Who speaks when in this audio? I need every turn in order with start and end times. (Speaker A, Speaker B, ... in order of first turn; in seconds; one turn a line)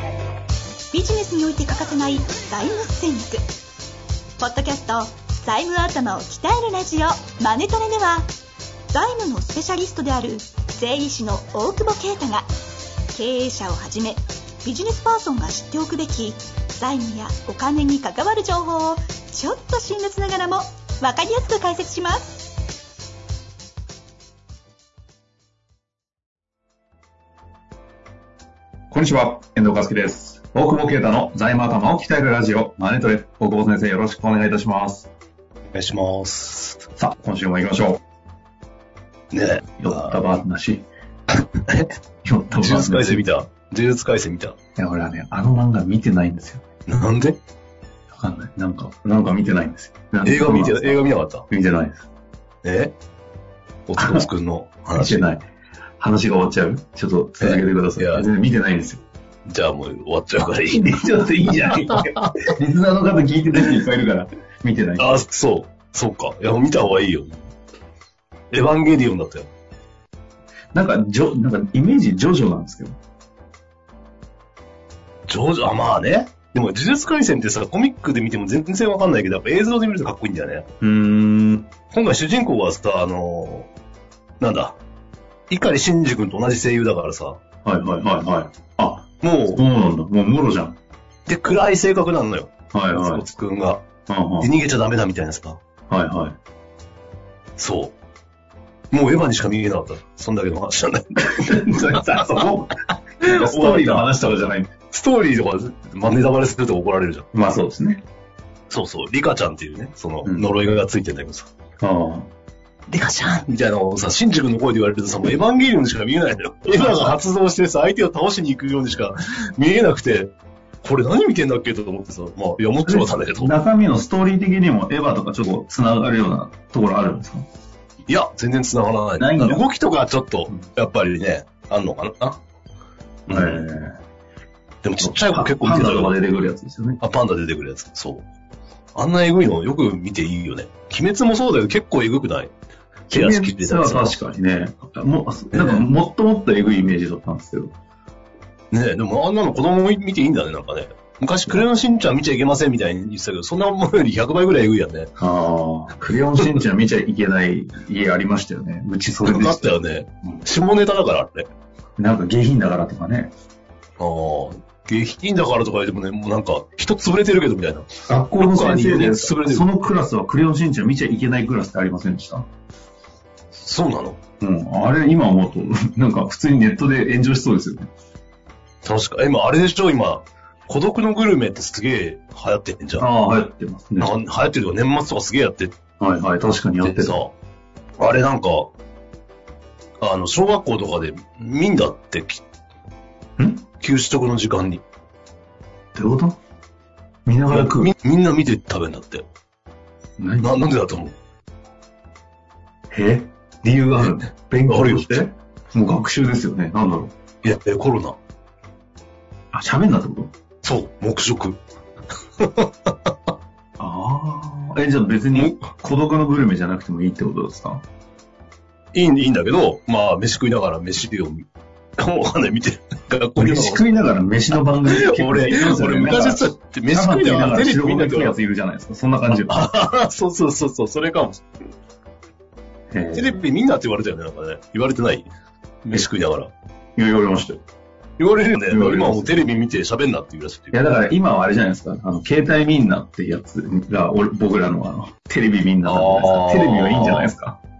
Speaker A: 0.9-3.4
Speaker A: 4.4-8.3
Speaker A: 8.9-12.5
Speaker A: 13.1-22.6
Speaker B: 28.9-35.1
Speaker C: 35.7-36.9
Speaker B: 37.0-38.0
Speaker C: 39.3-40.2
Speaker B: 39.8-40.9
Speaker C: 41.4-41.9
Speaker B: 42.2-43.2
Speaker C: 42.5-44.5
Speaker B: 44.8-46.6
Speaker C: 46.9-47.4
Speaker B: 48.1-52.0
Speaker C: 50.2-51.4
Speaker C: 52.6-52.9
Speaker C: 53.9-55.2
Speaker B: 54.0-54.3
Speaker B: 54.9-55.5
Speaker B: 56.0-59.0
Speaker C: 57.4-58.3
Speaker C: 59.5-62.4
Speaker B: 60.6-65.2
Speaker C: 65.0-67.3
Speaker C: 68.5-69.5
Speaker B: 70.7-72.9
Speaker C: 75.3-80.6
Speaker B: 80.8-81.7
Speaker C: 81.9-83.7
Speaker C: 84.4-84.8
Speaker C: 85.5-87.4
Speaker B: 87.6-90.8
Speaker C: 89.2-89.6
Speaker C: 91.3-93.8
Speaker B: 92.7-93.2
Speaker B: 94.1-94.5
Speaker C: 94.4-95.6
Speaker B: 95.9-96.4
Speaker C: 97.6-97.9
Speaker C: 98.9-102.5
Speaker B: 101.2-104.7
Speaker C: 103.2-107.2
Speaker B: 107.3-108.0
Speaker C: 108.7-111.5
Speaker B: 110.2-110.5
Speaker B: 111.8-112.3
Speaker C: 112.9-120.3
Speaker B: 116.7-117.2
Speaker C: 120.8-123.5
Speaker B: 122.8-127.4
Speaker C: 128.1-132.4
Speaker B: 129.2-129.6
Speaker C: 133.3-133.6
Speaker B: 133.3-134.0
Speaker C: 134.8-136.2
Speaker B: 135.0-137.0
Speaker C: 137.0-138.2
Speaker C: 138.9-142.5
Speaker C: 143.1-144.2
Speaker B: 143.1-147.7
Speaker C: 145.5-145.8
Speaker C: 148.7-155.1
Speaker B: 155.2-160.4
Speaker C: 159.2-161.5
Speaker B: 162.0-163.3
Speaker C: 164.0-169.7
Speaker B: 168.1-172.5
Speaker C: 173.5-174.2
Speaker B: 174.4-177.9
Speaker C: 178.8-183.1
Speaker B: 183.0-184.1
Speaker C: 184.0-185.7
Speaker B: 186.0-187.2
Speaker C: 186.8-187.3
Speaker C: 188.0-188.7
Speaker C: 190.0-192.4
Speaker B: 193.4-193.6
Speaker C: 193.8-194.8
Speaker B: 195.9-196.4
Speaker B: 197.2-197.9
Speaker C: 197.5-199.2
Speaker B: 200.2-200.5
Speaker C: 200.4-201.1
Speaker B: 202.9-207.1
Speaker C: 203.9-205.2
Speaker C: 207.4-208.2
Speaker B: 209.5-210.3
Speaker C: 210.6-211.6
Speaker C: 212.4-212.9
Speaker B: 213.8-217.8
Speaker C: 215.3-215.6
Speaker C: 218.9-221.4
Speaker C: 222.0-228.4
Speaker B: 223.4-229.6
Speaker C: 229.5-231.4
Speaker B: 232.9-233.4
Speaker C: 233.1-235.3
Speaker C: 235.8-236.5
Speaker B: 236.9-237.6
Speaker C: 238.2-240.8
Speaker B: 238.6-239.4
Speaker B: 240.7-247.6
Speaker C: 245.8-247.3